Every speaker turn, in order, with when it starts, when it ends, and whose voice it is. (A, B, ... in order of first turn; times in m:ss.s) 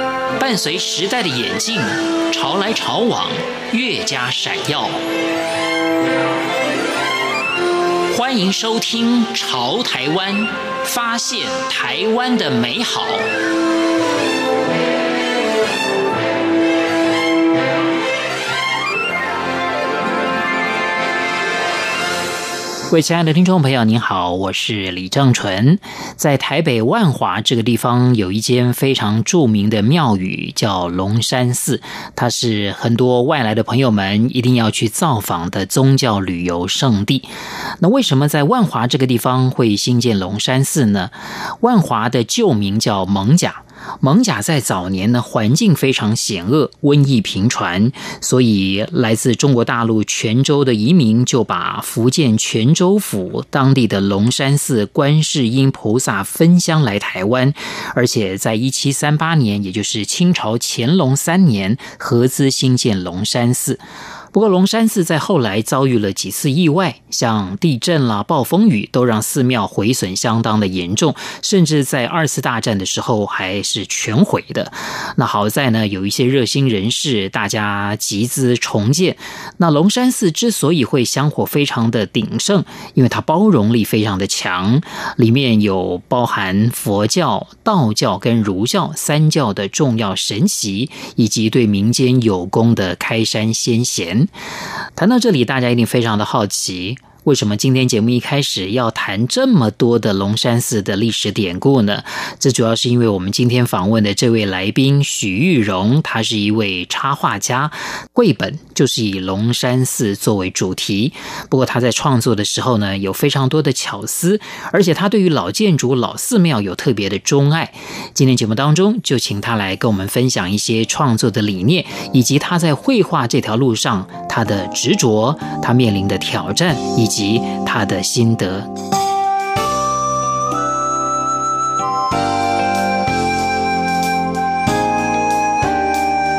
0:00.4-0:05.0 A
0:08.1-0:13.3 A
0:22.9-0:37.3 A
0:37.8-1:03.8 A
1:04.3-1:34.3 A
1:35.0-2:08.7 A